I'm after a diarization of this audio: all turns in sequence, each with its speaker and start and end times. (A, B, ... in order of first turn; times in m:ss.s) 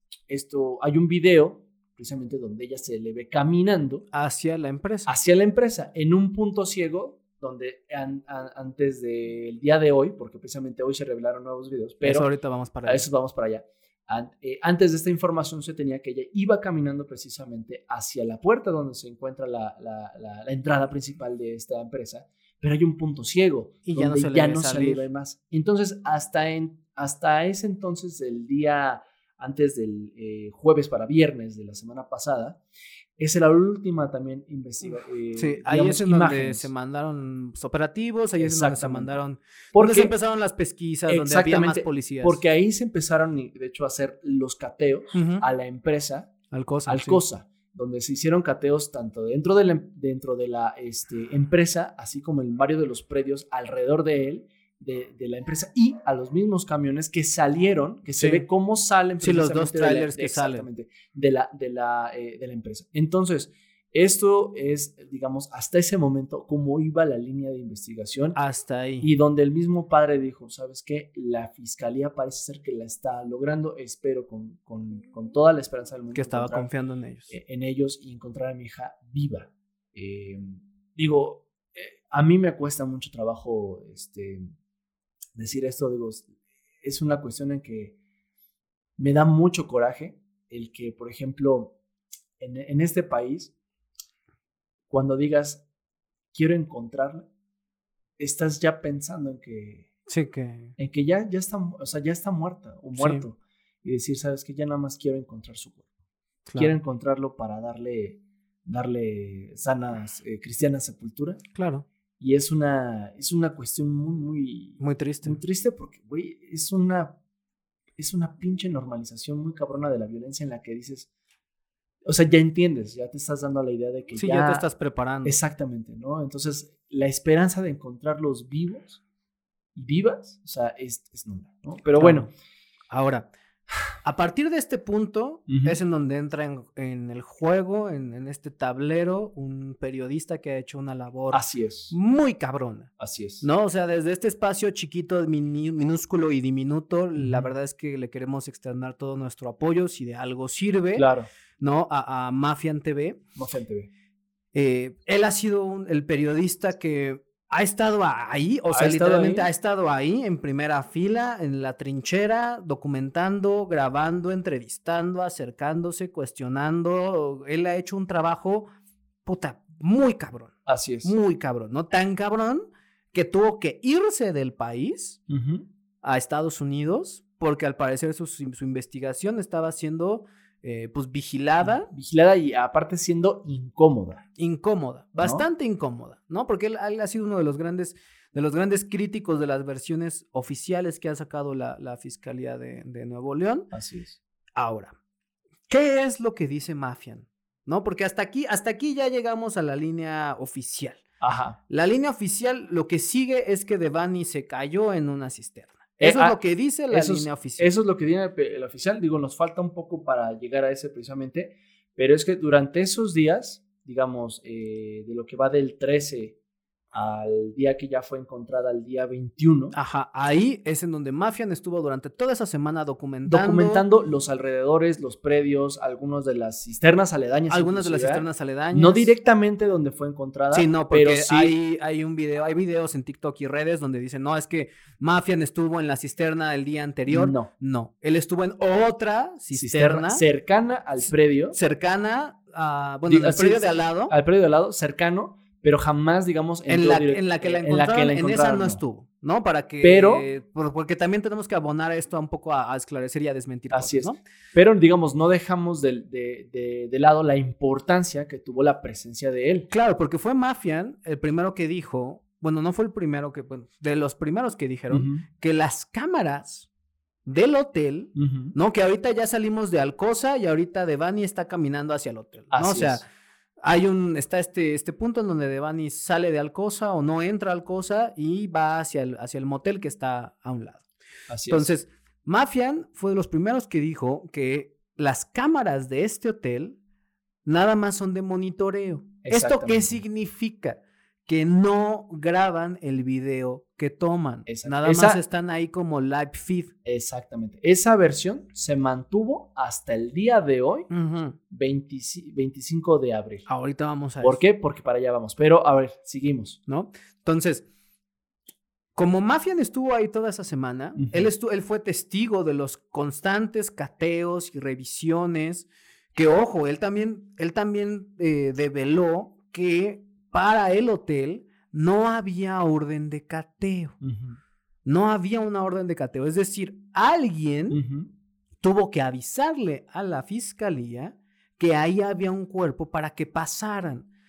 0:00.3-0:04.0 A
0:04.1-0:05.1 B
0:05.1-0:12.3 A
0:12.0-0:13.1 B
0:12.9-0:32.6 A
0:23.9-0:25.1 B
0:33.2-0:36.7 A
0:35.4-0:42.4 B
0:38.4-0:39.1 A
0:39.7-0:40.1 A
0:41.1-0:46.4 A
0:45.1-0:45.4 B
0:46.5-0:47.2 B
0:46.9-1:08.4 A
0:58.2-0:58.4 B
0:59.2-1:00.7 B
1:08.4-1:09.1 B
1:09.0-1:16.7 A
1:16.2-1:17.3 B
1:17.3-1:24.5 A
1:25.4-1:26.3 A
1:26.8-1:28.0 A
1:29.0-1:31.8 A
1:32.4-1:33.5 A
1:34.9-1:35.6 A
1:36.3-1:37.3 A
1:38.2-1:39.9 A
1:40.1-1:40.7 B
1:40.8-1:45.8 A
1:43.0-1:43.2 B
1:46.5-1:46.7 B
1:46.6-1:51.4 A
1:51.6-1:51.9 B
1:52.2-1:57.2 A
1:54.8-1:55.4 B
1:58.0-2:01.1 A
2:02.0-2:04.6 A
2:04.2-2:05.4 B
2:05.2-2:09.0 A
2:09.8-2:12.3 A
2:12.0-2:12.3 B
2:12.9-2:13.3 B
2:14.0-2:33.2 B
2:15.5-2:15.8 A
2:21.3-2:21.9 A
2:23.0-2:23.4 A
2:27.2-2:27.5 A
2:31.0-2:31.3 A
2:33.4-2:33.9 A
2:34.5-2:48.7 B
2:38.7-2:39.5 A
2:49.2-2:55.2 B
2:50.7-2:51.1 A
2:55.3-2:55.7 A
2:56.0-3:01.9 B
3:01.6-3:04.2 A
3:04.4-3:13.7 B
3:13.7-3:14.2 A
3:14.6-3:15.0 B
3:15.7-3:21.0 B
3:21.2-3:21.6 A
3:21.7-3:27.7 B
3:26.0-3:26.4 A
3:26.9-3:36.4 A
3:36.9-3:39.8 A
3:39.7-3:43.8 B
3:43.3-3:51.6 A
3:47.5-3:49.1 B
3:50.5-4:00.2 B
3:57.1-3:57.5 A
3:59.5-4:01.6 A
4:01.5-4:04.1 B
4:03.1-4:08.8 A
4:06.7-4:14.2 B
4:09.8-4:10.3 A
4:13.7-4:19.7 A
4:19.7-4:26.7 B
4:24.9-4:25.2 A
4:27.3-4:33.0 B
4:28.2-4:28.6 A
4:32.5-4:33.0 A
4:33.6-4:40.8 B
4:41.3-4:41.7 A
4:41.5-4:46.8 B
4:47.5-4:56.7 B
4:49.2-4:50.0 A
4:54.5-4:55.2 A
4:56.8-5:00.9 A
5:00.9-5:01.4 B
5:01.5-5:03.5 A
5:03.5-5:04.4 B
5:04.2-5:06.6 A
5:06.7-5:07.6 B
5:09.0-5:24.0 B
5:11.0-5:11.3 A
5:24.0-5:24.4 A
5:24.8-5:27.8 B
5:27.7-5:28.1 A
5:28.6-5:34.1 B